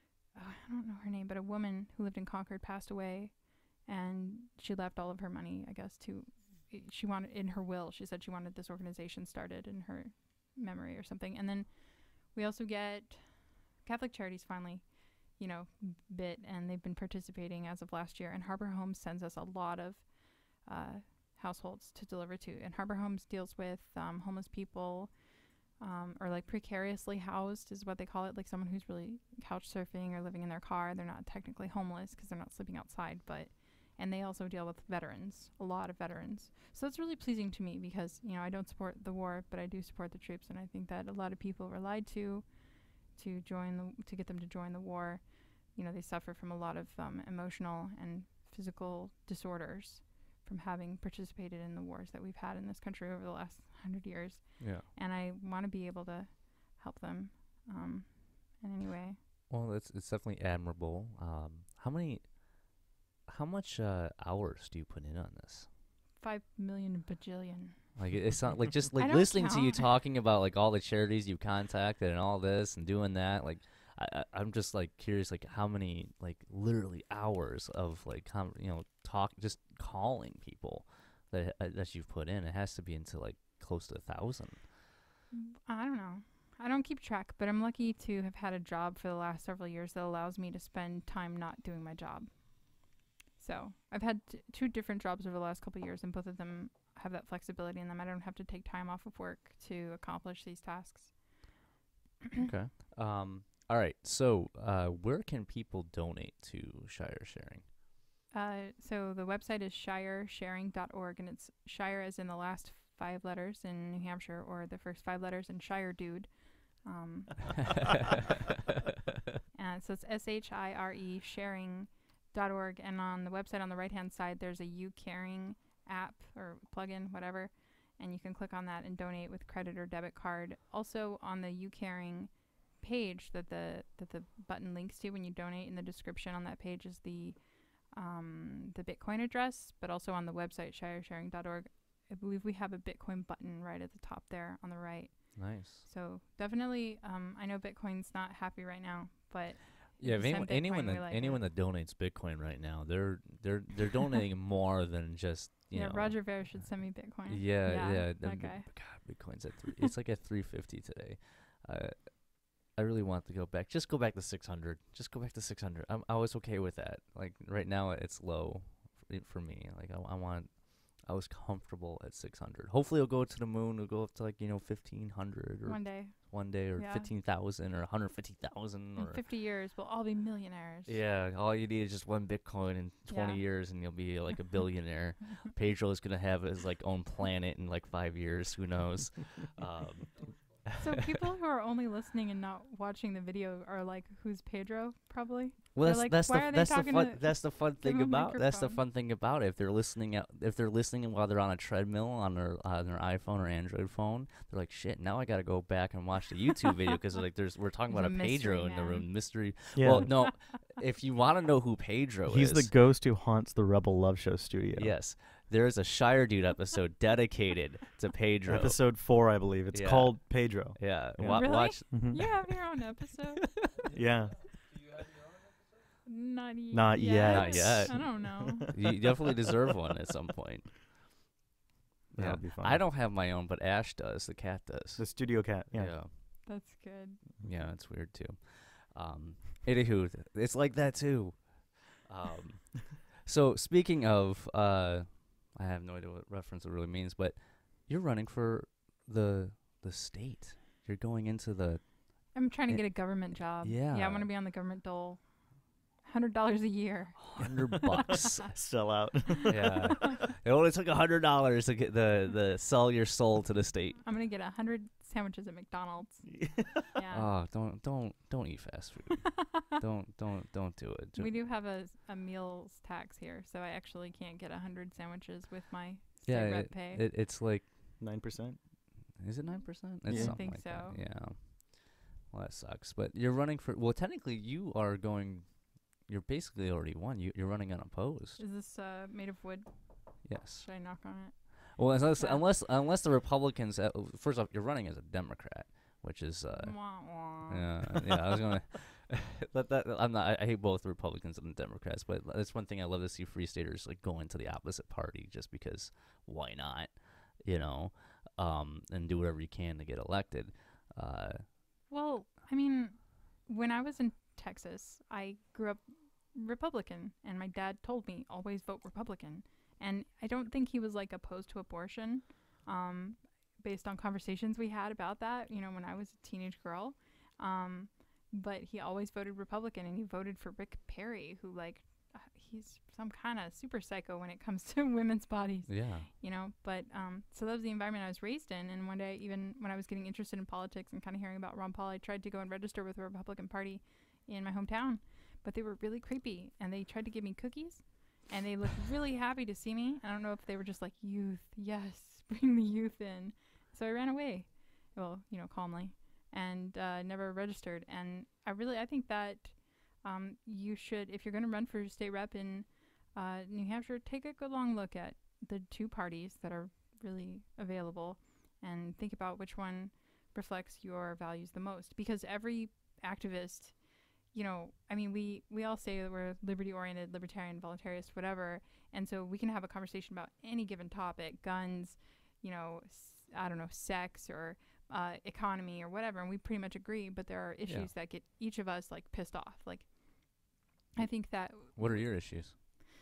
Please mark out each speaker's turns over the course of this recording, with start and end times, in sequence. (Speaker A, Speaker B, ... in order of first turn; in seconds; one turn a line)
Speaker A: 0.3-59.2
Speaker B: 54.6-54.9
Speaker B: 59.5-65.7
Speaker A: 66.2-68.0
Speaker B: 68.0-84.7
Speaker A: 68.9-69.9
Speaker A: 85.3-101.5
Speaker B: 102.4-107.7
Speaker A: 108.3-117.9
Speaker A: 119.5-151.4
Speaker B: 145.3-145.8
Speaker B: 150.0-179.2
Speaker A: 155.7-159.3
Speaker A: 175.7-177.1
Speaker A: 178.9-181.0
Speaker B: 180.8-190.8
Speaker A: 183.1-183.4
Speaker A: 190.8-198.8
Speaker B: 195.7-212.7
Speaker A: 207.9-210.3
Speaker C: 209.7-210.2
Speaker C: 212.3-215.0
Speaker B: 214.7-222.5
Speaker C: 218.4-222.2
Speaker A: 221.3-223.6
Speaker C: 223.9-224.5
Speaker A: 226.0-228.9
Speaker C: 226.7-228.8
Speaker B: 227.0-230.9
Speaker B: 232.1-236.6
Speaker C: 232.1-232.8
Speaker C: 235.0-236.1
Speaker A: 236.4-237.2
Speaker B: 237.4-254.3
Speaker A: 252.3-257.9
Speaker B: 257.2-258.6
Speaker C: 257.9-259.9
Speaker B: 259.5-264.1
Speaker A: 264.0-267.3
Speaker C: 266.2-266.8
Speaker B: 267.1-271.3
Speaker A: 269.3-269.7
Speaker A: 271.1-277.0
Speaker B: 276.2-278.0
Speaker C: 278.0-278.6
Speaker B: 279.1-288.4
Speaker C: 280.0-280.4
Speaker A: 280.1-281.0
Speaker A: 288.4-292.4
Speaker B: 290.2-311.5
Speaker A: 296.5-297.7
Speaker A: 311.9-392.7
Speaker B: 335.7-336.1
Speaker B: 387.6-387.9
Speaker B: 391.5-392.6